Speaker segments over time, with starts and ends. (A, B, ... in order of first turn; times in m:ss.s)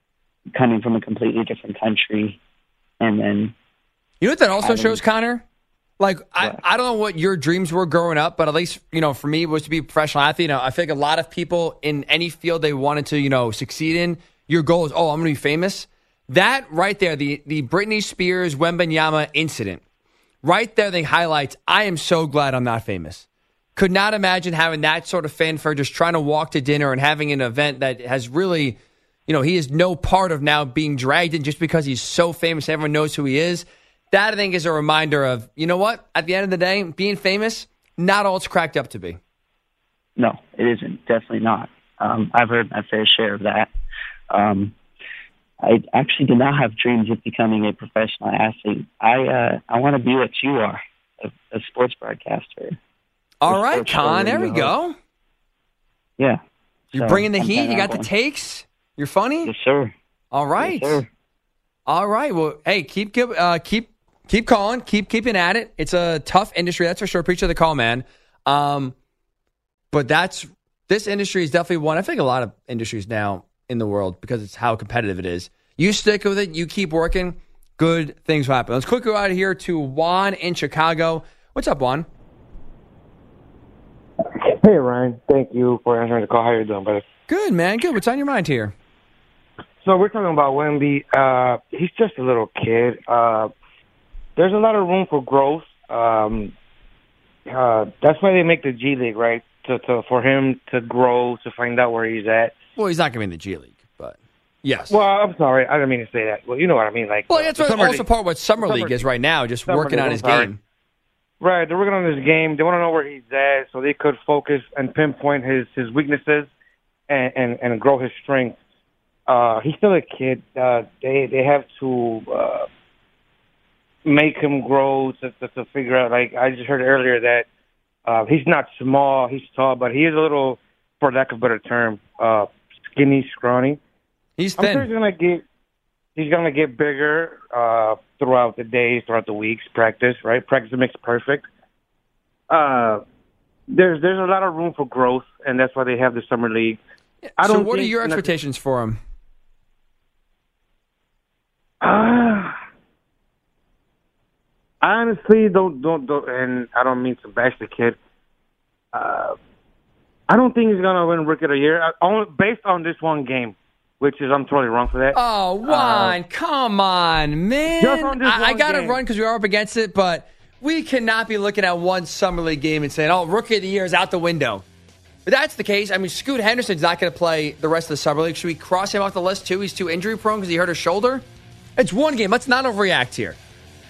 0:00.5-0:02.4 A
0:03.0-0:03.5 A
0:04.2-0:05.4 B
0:04.6-0:05.0 A
0:06.0-0:19.8 B
0:20.4-0:39.2 B
0:40.2-0:43.7 A
0:44.3-0:44.7 A
0:45.6-0:52.8 A
0:53.4-0:54.9 B
0:53.5-0:54.7 A
0:56.9-0:58.1 A
0:56.9-0:59.5 B
0:59.4-0:59.9 A
1:00.3-1:01.0 B
1:00.6-1:01.1 A
1:01.9-1:08.9 B
1:09.9-1:22.1 B
1:24.4-1:27.0 C
1:27.3-1:28.7 B
1:29.8-1:33.5 C
1:34.4-1:36.5 C
1:37.5-1:42.5 C
1:42.8-1:45.0 B
1:44.9-1:48.0 C
1:47.3-1:50.6 B
1:48.6-1:49.0 C
1:49.6-1:50.5 C
1:51.4-1:56.5 C
1:57.1-1:58.6 C
1:59.3-2:02.7 C
2:04.0-2:07.5 C
2:08.0-2:13.8 C
2:14.4-2:14.9 B
2:14.6-2:15.4 C
2:16.1-2:21.5 C
2:22.5-2:23.0 C
2:23.7-2:26.8 C
2:27.2-2:29.0 B
2:27.4-2:28.3 C
2:31.8-2:32.6 C
2:34.8-2:38.0 C
2:38.9-2:39.4 C
2:40.3-2:46.2 C
2:45.1-2:54.6 B
2:47.7-2:49.0 C
2:55.2-3:01.2 B
3:01.8-3:03.4 B